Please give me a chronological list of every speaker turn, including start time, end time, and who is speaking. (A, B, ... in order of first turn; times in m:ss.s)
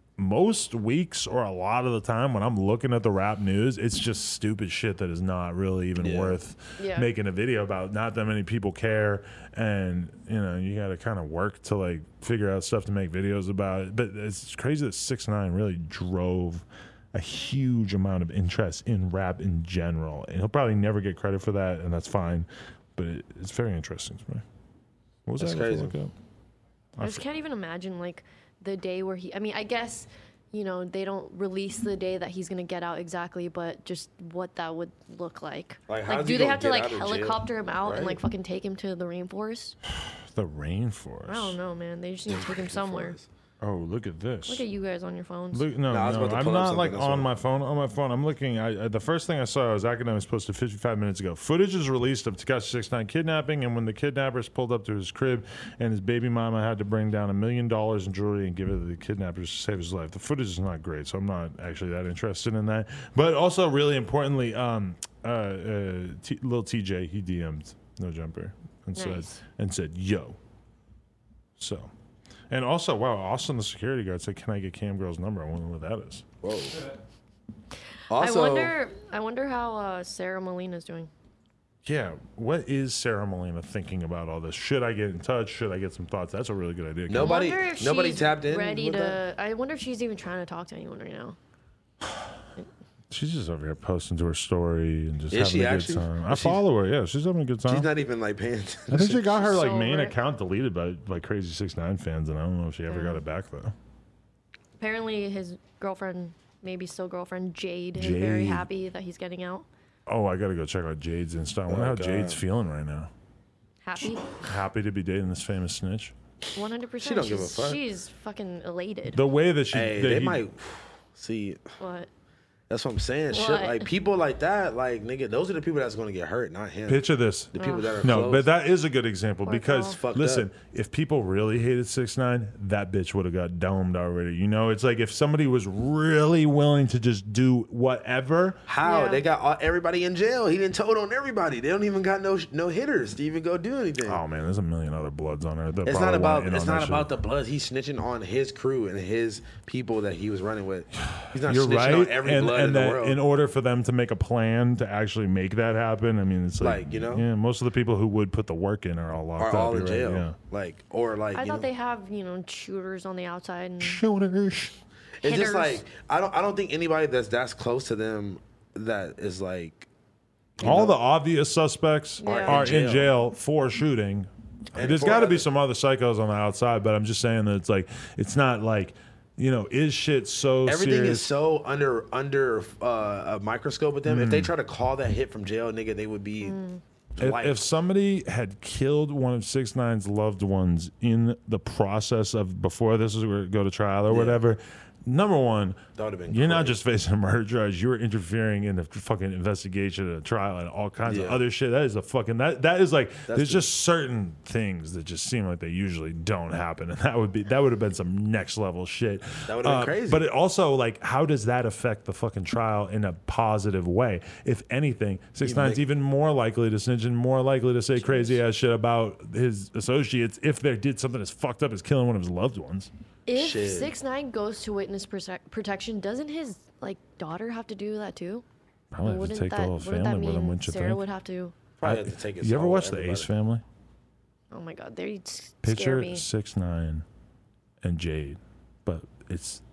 0:00.2-0:24.4 A
0:06.0-0:06.4 B
0:06.8-0:07.1 C
0:25.2-0:26.1 A
0:25.4-0:25.9 B
0:27.0-0:27.2 A
0:27.0-0:39.8 C
0:35.9-0:38.2 B
0:40.0-0:41.6 A
0:41.3-0:43.2 C
0:42.3-0:43.3 B
0:43.6-0:44.6 A
0:44.5-0:45.6 C
0:45.5-1:10.4 A
0:45.9-0:47.3 B
1:09.0-1:09.4 C
1:11.6-1:11.9 A
1:12.5-1:16.3 A
1:16.4-1:16.8 B
1:18.1-1:18.7 B
1:18.1-1:21.1 C
1:21.8-1:27.4 A
1:27.1-1:29.2 B
1:27.1-1:31.4 C
1:33.1-1:37.9 A
1:35.3-1:36.6 B
1:37.7-1:39.2 B
1:38.9-1:43.7 A
1:39.3-1:40.1 C
1:42.9-1:43.2 C
1:44.8-1:49.6 C
1:48.0-1:48.6 A
1:50.1-1:53.1 A
1:51.7-1:52.4 B
1:53.8-1:54.4 C
1:54.2-1:56.1 A
1:56.5-1:59.2 C
1:57.0-1:57.8 B
1:59.1-2:00.4 A
1:59.7-2:01.6 B
2:01.8-2:02.1 C
2:02.7-2:08.5 B
2:03.3-2:03.9 C
2:06.9-2:18.6 A
2:07.6-2:07.9 C
2:09.4-2:10.0 C
2:09.9-2:10.5 B
2:18.7-2:24.2 B
2:18.8-2:19.2 C
2:24.0-2:27.1 A
2:25.8-2:33.2 B
2:31.0-2:40.4 A
2:36.6-2:37.3 B
2:39.4-2:41.7 B
2:41.3-2:44.0 C
2:43.8-2:44.7 A
2:45.2-2:45.8 C
2:45.2-2:49.9 B
2:50.6-2:51.0 B
2:50.6-3:01.3 A
2:52.2-2:52.8 C
2:52.2-2:53.1 B
2:54.7-2:55.4 B
3:00.6-3:06.6 B
3:04.0-3:04.5 A
3:06.4-3:06.8 C
3:07.2-3:07.6 B
3:07.2-3:42.9 A
3:14.1-3:14.4 B
3:16.0-3:16.8 B
3:21.0-3:21.4 B
3:23.3-3:23.6 B
3:29.5-3:30.2 B
3:35.4-3:35.8 B
3:38.0-3:38.4 C
3:43.3-3:48.4 C
3:43.3-3:43.9 B
3:48.9-3:51.0 A
3:49.0-3:51.5 C
3:51.8-3:53.3 B
3:51.8-3:53.6 A
3:54.5-3:56.2 C
3:55.6-3:57.0 A
3:57.8-3:59.6 A